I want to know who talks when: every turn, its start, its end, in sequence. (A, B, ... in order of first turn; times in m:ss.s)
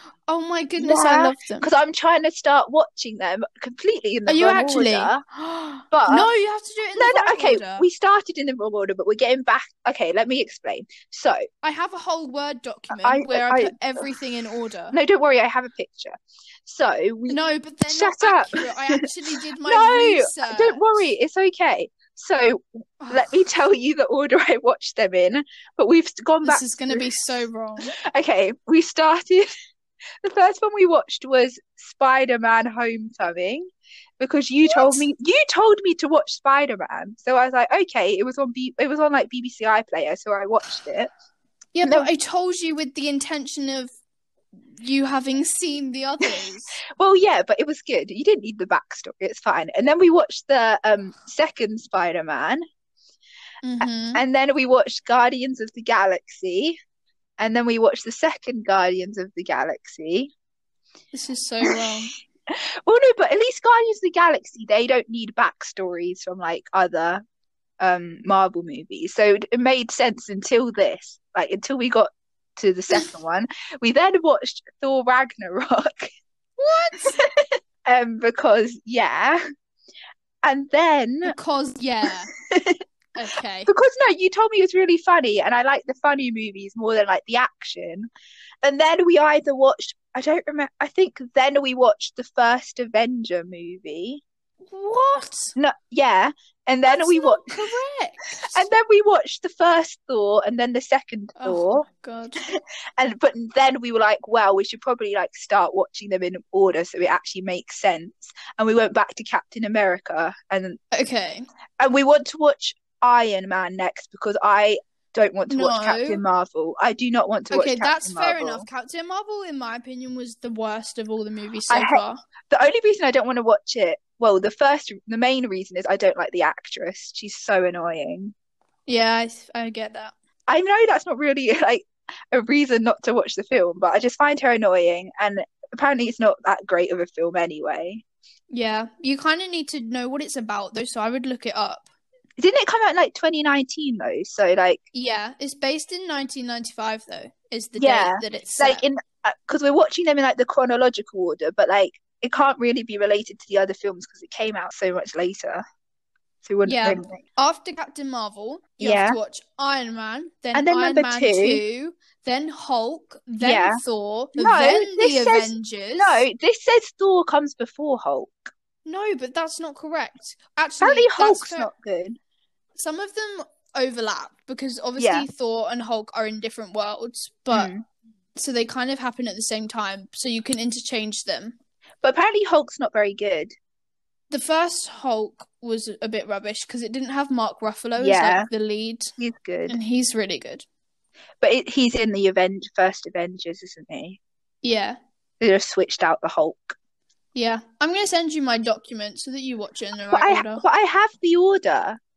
0:00.3-0:01.7 A
0:00.8-0:05.2 B
0:04.3-0:07.8 A
0:05.9-0:06.3 B
0:07.0-0:11.4 B
0:11.6-0:15.0 A
0:12.9-0:14.0 B
0:14.9-0:17.4 B
0:17.3-0:20.8 A
0:17.9-0:19.1 B
0:19.6-0:27.1 B
0:23.0-0:23.3 A
0:26.4-0:27.9 A
0:28.0-0:29.5 B
0:30.2-0:33.7 B
0:34.2-0:41.1 B
0:34.6-0:35.0 A
0:41.7-0:43.9 A
0:41.8-0:42.1 B
0:44.8-0:46.8 A
0:47.0-0:52.6 B
0:53.6-0:54.2 A
0:53.8-0:56.8 B
0:57.4-1:00.3 B
1:01.1-1:02.1 A
1:02.5-1:07.2 B
1:07.8-1:16.1 B
1:16.6-1:17.2 A
1:17.0-1:19.4 B
1:20.4-1:21.3 B
1:21.2-1:22.3 A
1:22.4-1:22.8 B
1:23.2-1:23.7 A
1:23.6-1:28.1 B
1:28.6-1:34.2 B
1:34.6-1:35.5 A
1:35.6-1:37.6 B
1:36.8-1:38.6 A
1:38.4-1:41.8 B
1:41.4-1:42.4 A
1:42.4-1:50.8 B
1:50.9-1:51.5 A
1:51.8-1:58.6 B
1:55.5-1:56.2 A
1:57.5-2:02.2 A
2:01.7-2:08.3 B
2:08.9-2:10.1 A
2:10.5-2:18.0 B
2:18.5-2:21.9 A
2:22.4-2:24.8 B
2:24.9-2:28.8 A
2:27.8-2:35.6 B
2:36.4-2:37.2 B
2:36.6-2:46.2 A
2:38.8-2:39.2 B
2:40.5-2:41.6 B
2:43.4-2:43.8 B
2:44.4-2:48.5 B
2:48.8-2:51.7 A
2:50.8-2:52.2 B
2:52.8-2:57.7 A
2:55.0-2:55.3 B
2:57.5-2:57.8 B
2:58.4-3:01.6 A
3:02.0-3:03.5 B
3:04.3-3:09.1 A
3:08.0-3:08.5 B
3:09.2-3:09.8 B
3:09.7-3:10.6 A
3:11.4-3:14.2 B
3:14.6-3:15.0 A
3:15.4-3:16.8 B
3:17.3-3:20.6 A
3:20.1-3:22.0 B